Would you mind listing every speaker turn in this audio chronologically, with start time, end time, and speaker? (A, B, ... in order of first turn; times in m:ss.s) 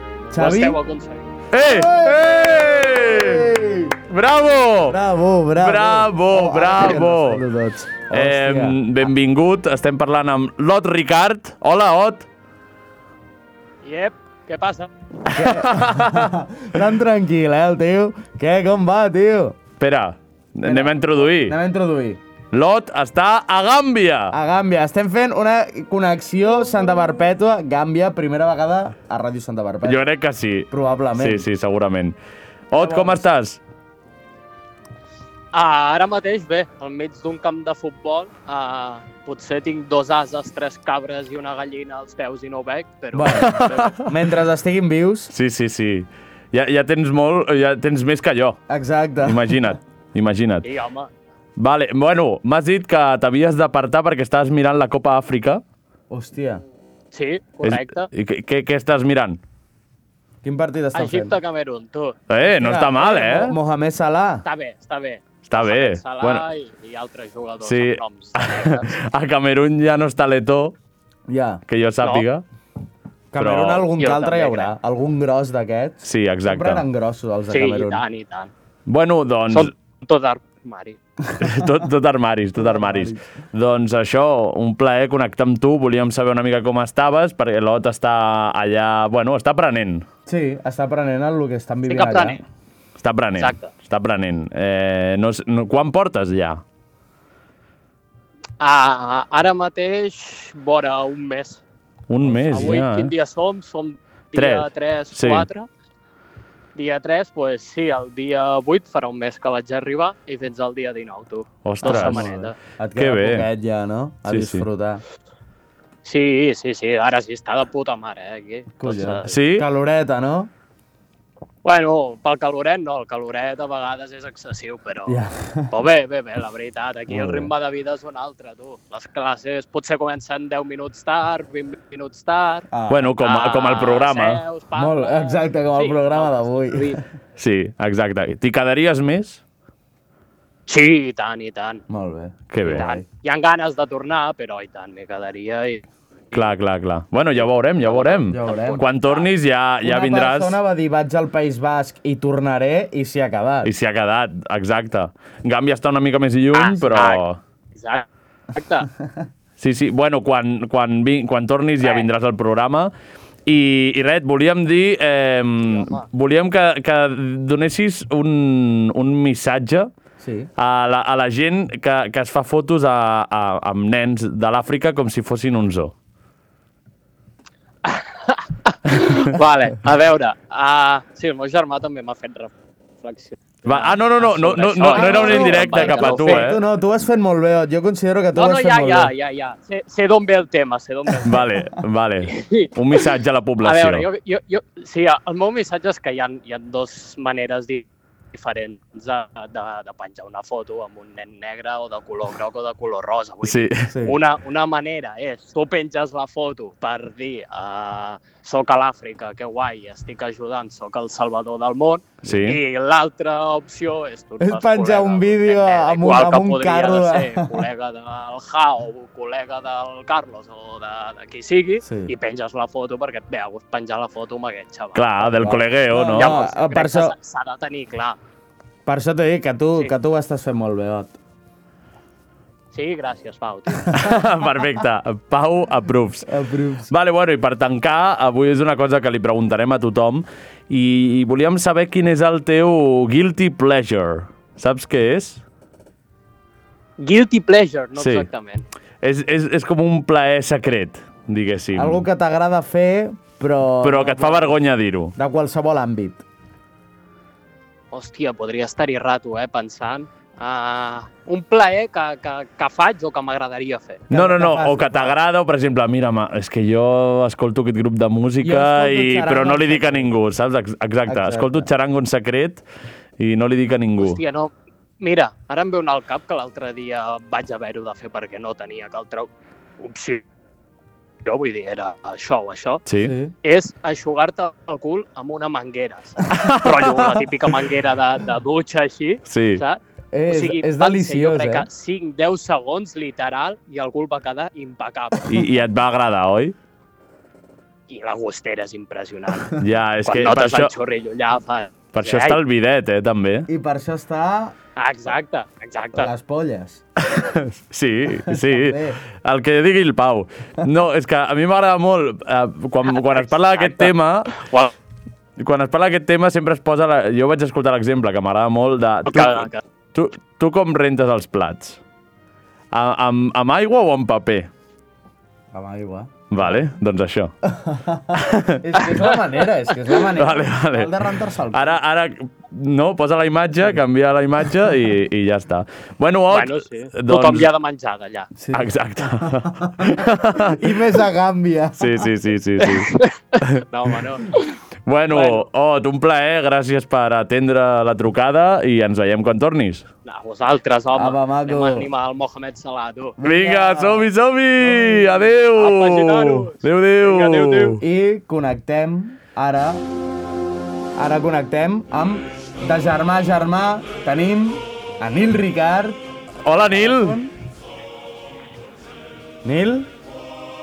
0:00.3-0:00.8 A
0:00.3-0:01.3 B
0:01.5-0:03.5 C
0:01.6-0:02.3 A
0:02.9-0:04.0 A
0:04.1-0:05.0 C
0:04.9-0:08.8 A
0:05.6-0:07.4 C
0:08.1-0:12.3 C
0:13.8-0:14.9 B
0:15.3-0:19.6 A
0:15.3-0:16.3 C
0:19.8-0:21.5 C
0:20.6-0:22.2 A
0:22.5-0:24.3 C
0:24.3-0:30.0 A
0:29.8-0:32.2 C
0:30.7-0:31.4 A
0:32.7-0:33.6 C
0:32.8-0:33.2 A
0:35.5-0:44.0 B
0:43.1-0:45.3 A
0:43.3-0:44.0 C
0:45.3-0:48.6 C
0:48.7-0:49.6 A
0:49.2-0:50.6 C
0:50.6-0:51.1 B
0:51.6-0:55.6 C
0:56.1-0:56.6 A
0:57.1-0:58.1 B
0:57.6-0:59.4 C
1:00.4-1:01.4 A
1:00.9-1:02.2 B
1:02.3-1:03.5 C
1:02.6-1:04.4 A
1:04.4-1:09.0 B
1:05.5-1:06.4 C
1:07.6-1:10.8 C
1:11.3-1:11.6 A
1:11.7-1:12.4 C
1:13.3-1:18.0 A
1:13.4-1:13.9 C
1:14.0-1:14.7 B
1:16.0-1:16.8 C
1:17.5-1:18.5 B
1:18.9-1:19.7 C
1:19.5-1:21.0 B
1:21.4-1:30.0 C
1:22.6-1:23.2 A
1:30.2-1:32.4 A
1:31.9-1:32.4 B
1:33.0-1:36.6 C
1:33.4-1:33.7 B
1:38.6-1:41.6 B
1:42.1-1:43.1 C
1:42.2-1:45.7 B
1:44.3-1:45.5 C
1:46.8-1:52.6 B
1:51.6-1:52.3 C
1:51.8-1:55.0 A
1:53.0-1:53.5 C
1:54.3-1:54.6 C
1:56.0-1:59.3 B
1:58.8-2:00.5 A
1:59.3-1:59.7 C
2:01.6-2:12.7 B
2:05.1-2:05.7 A
2:07.1-2:07.5 A
2:12.7-2:13.1 A
2:12.9-2:14.4 C
2:13.2-2:17.0 B
2:14.7-2:17.0 A
2:17.4-2:19.4 C
2:20.7-2:21.8 B
2:21.9-2:23.0 A
2:22.5-2:22.9 C
2:22.6-2:25.8 B
2:26.3-2:30.6 C
2:27.8-2:29.3 B
2:28.3-2:28.8 A
2:29.8-2:33.7 A
2:33.6-2:37.4 C
2:36.5-2:37.2 B
2:37.7-2:38.9 B
2:39.6-2:42.9 C
2:41.8-2:42.1 B
2:43.5-2:49.9 C
2:45.6-2:46.0 B
2:50.2-2:50.5 A
2:50.6-2:55.9 C
2:57.8-3:06.5 B
3:03.7-3:06.6 C
3:04.9-3:09.1 A
3:08.3-3:11.4 B
3:11.2-3:14.0 C
3:12.3-3:13.0 B
3:13.6-3:45.3 B
3:23.4-3:23.9 C
3:23.9-3:24.2 A
3:32.2-3:32.6 C
3:34.4-3:37.6 A
3:41.8-3:42.1 A
3:45.0-3:46.4 C
3:45.2-3:47.2 A
3:46.1-3:48.2 B
3:48.8-3:51.2 A
3:52.7-3:54.2 B
3:53.9-3:56.3 C
3:56.3-3:56.9 A
3:56.9-4:05.4 C
4:07.0-4:08.6 B
4:08.0-4:08.3 C
4:09.0-4:12.0 C
4:11.8-4:14.6 A
4:13.8-4:15.1 C
4:15.2-4:16.2 A
4:17.9-4:24.0 B
4:24.1-4:25.2 A
4:24.1-4:32.6 C
4:28.4-4:30.1 A
4:31.1-4:31.7 A
4:33.2-4:34.2 C
4:34.0-4:40.2 B
4:41.2-4:42.8 B
4:42.9-4:43.1 C
4:43.0-4:43.3 A
4:43.4-4:55.3 B
4:46.3-4:47.2 C
4:49.3-4:49.6 C
4:50.1-4:51.6 A
4:55.3-4:56.5 C
4:57.9-5:02.4 B
4:59.6-5:00.7 C
5:01.9-5:03.5 C
5:03.5-5:04.5 A
5:04.8-5:06.1 B
5:06.0-5:06.8 A
5:07.1-5:14.4 C
5:08.3-5:09.0 A
5:12.9-5:13.9 B
5:14.4-5:14.7 B
5:15.4-5:21.8 C
5:19.0-5:19.6 B
5:22.7-5:24.5 C
5:25.5-5:26.2 A
5:26.3-5:27.3 C
5:27.5-5:31.8 A
5:28.2-5:28.6 C
5:30.1-5:30.9 C
5:31.5-5:37.5 C
5:36.3-5:38.3 B
5:38.4-5:41.9 A
5:38.5-5:40.6 C
5:41.8-5:43.4 C
5:42.8-5:44.3 B
5:44.9-5:49.9 C
5:45.1-5:45.4 B
5:50.0-5:53.2 B
5:50.9-5:51.9 A
5:53.2-5:54.0 A
5:53.2-5:57.8 C
5:54.6-5:55.2 A
5:55.6-5:57.8 B
5:57.8-5:59.8 A
6:01.0-6:06.0 A
6:06.5-6:07.2 C
6:06.7-6:07.3 A
6:09.4-6:09.9 A